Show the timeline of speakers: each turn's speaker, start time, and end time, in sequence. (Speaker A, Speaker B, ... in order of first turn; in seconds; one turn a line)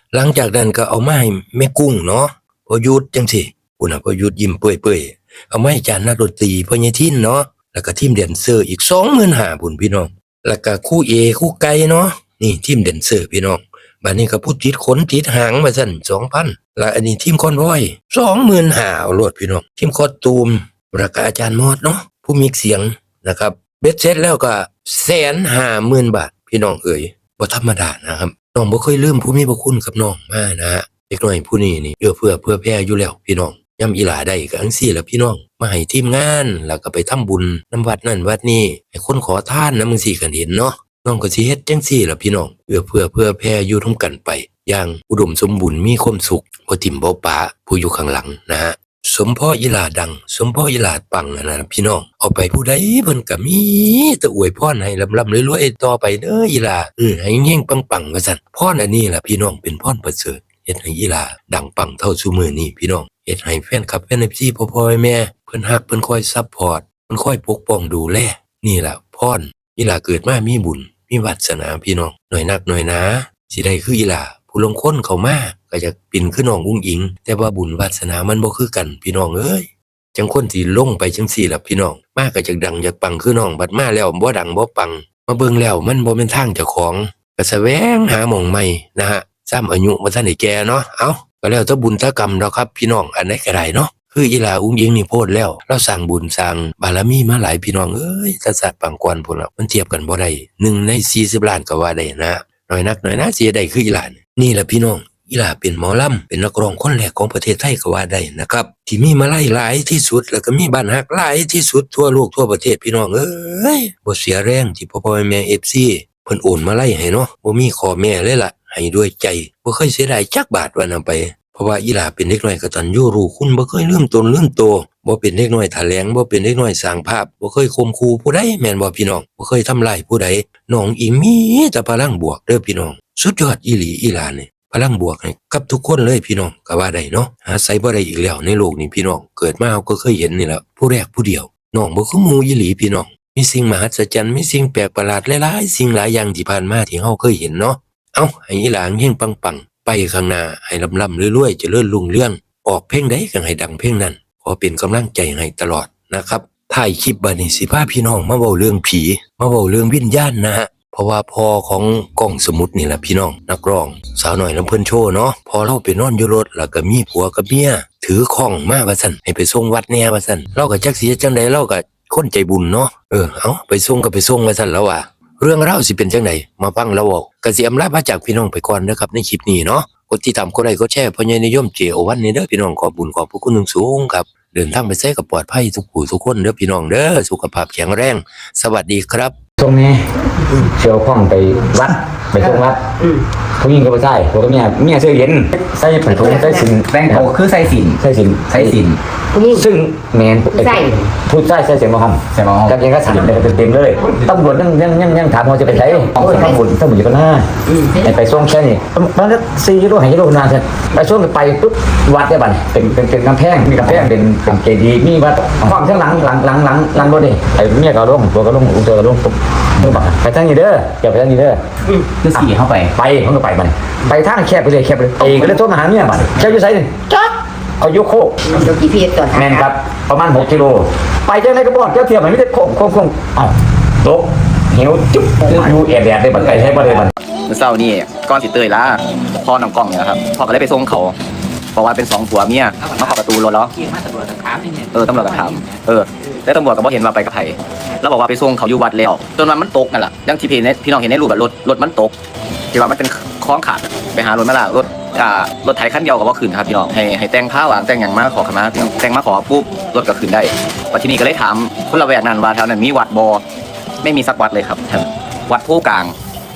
Speaker A: 0.1-189.3
Speaker B: 189.6-190.0
Speaker B: 190.6-192.8
Speaker B: 193.6-197.3
Speaker C: 196.1-196.7
Speaker D: 196.8-199.0
Speaker B: 198.0-198.8
Speaker C: 199.3-199.6
Speaker B: 199.5-207.4
Speaker C: 200.6-201.1
Speaker D: 202.3-203.5
Speaker C: 205.7-206.6
Speaker C: 207.7-208.1
Speaker B: 208.0-221.6
Speaker D: 219.8-220.0
Speaker D: 222.2-222.9
Speaker B: 222.3-228.6
Speaker C: 228.5-229.6
Speaker B: 229.3-237.1
Speaker D: 236.3-236.9
Speaker E: 237.5-241.1
Speaker E: 241.7-243.8
Speaker D: 242.8-243.2
Speaker D: 243.7-245.8
Speaker E: 244.9-252.1
Speaker E: 252.7-263.4
Speaker E: 264.0-266.1